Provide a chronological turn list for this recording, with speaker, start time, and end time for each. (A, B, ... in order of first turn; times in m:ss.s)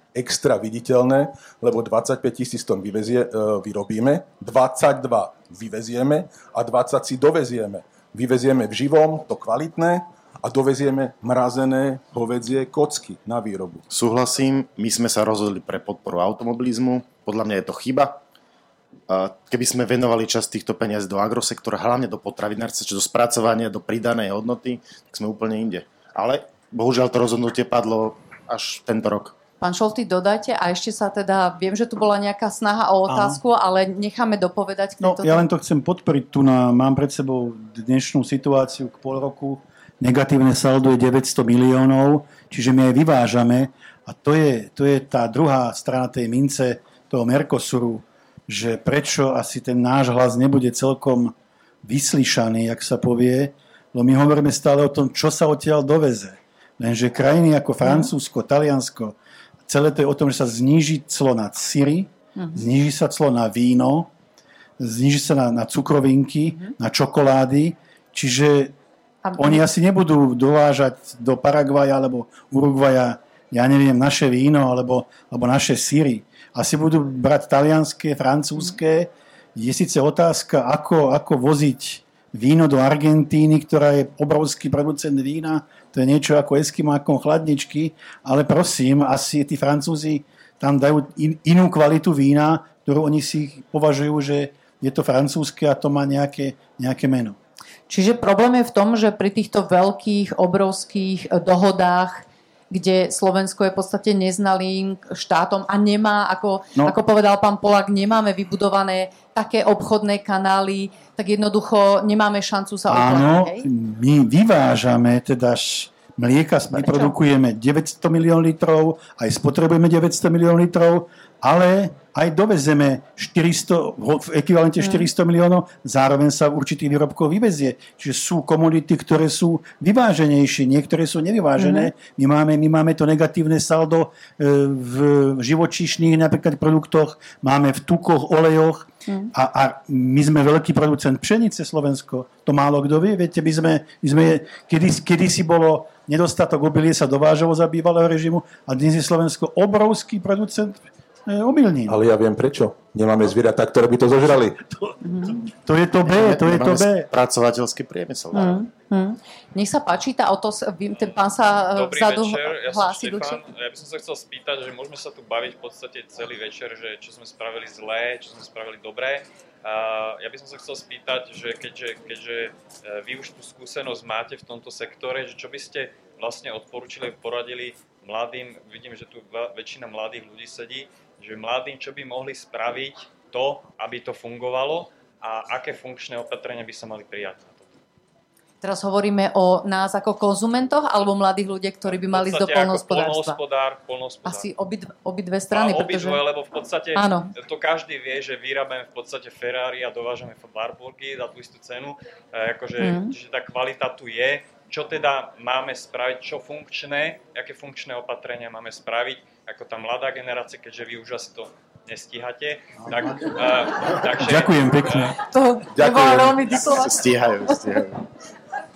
0:00.1-0:13.8 A
0:13.9-0:18.2 B
0:19.1-0:29.4 B
0:29.6-0:35.4 C
0:33.1-0:33.4 D
0:35.0-0:59.2 D
0:57.8-0:58.1 C
0:59.7-1:04.1 D
1:02.4-1:02.7 C
1:04.8-1:08.7 D
1:09.2-1:09.6 C
1:09.4-1:37.4 D
1:37.9-1:53.7 C
1:52.9-2:32.0 D
1:56.8-1:57.1 C
2:04.8-2:05.1 C
2:11.6-2:11.9 C
2:31.9-2:34.6 A
2:35.0-2:35.5 C
2:35.4-2:37.1 D
2:36.1-2:38.6 B
2:38.3-2:43.4 C
2:41.7-3:07.7 E
3:08.6-3:13.4 C
3:11.9-3:14.5 E
3:14.2-3:16.2 C
3:15.5-3:35.2 E
3:17.0-3:17.3 C
3:22.8-3:23.2 C
3:34.2-3:35.2 D
3:35.2-3:37.0 C
3:35.7-3:36.4 A
3:36.5-3:38.0 B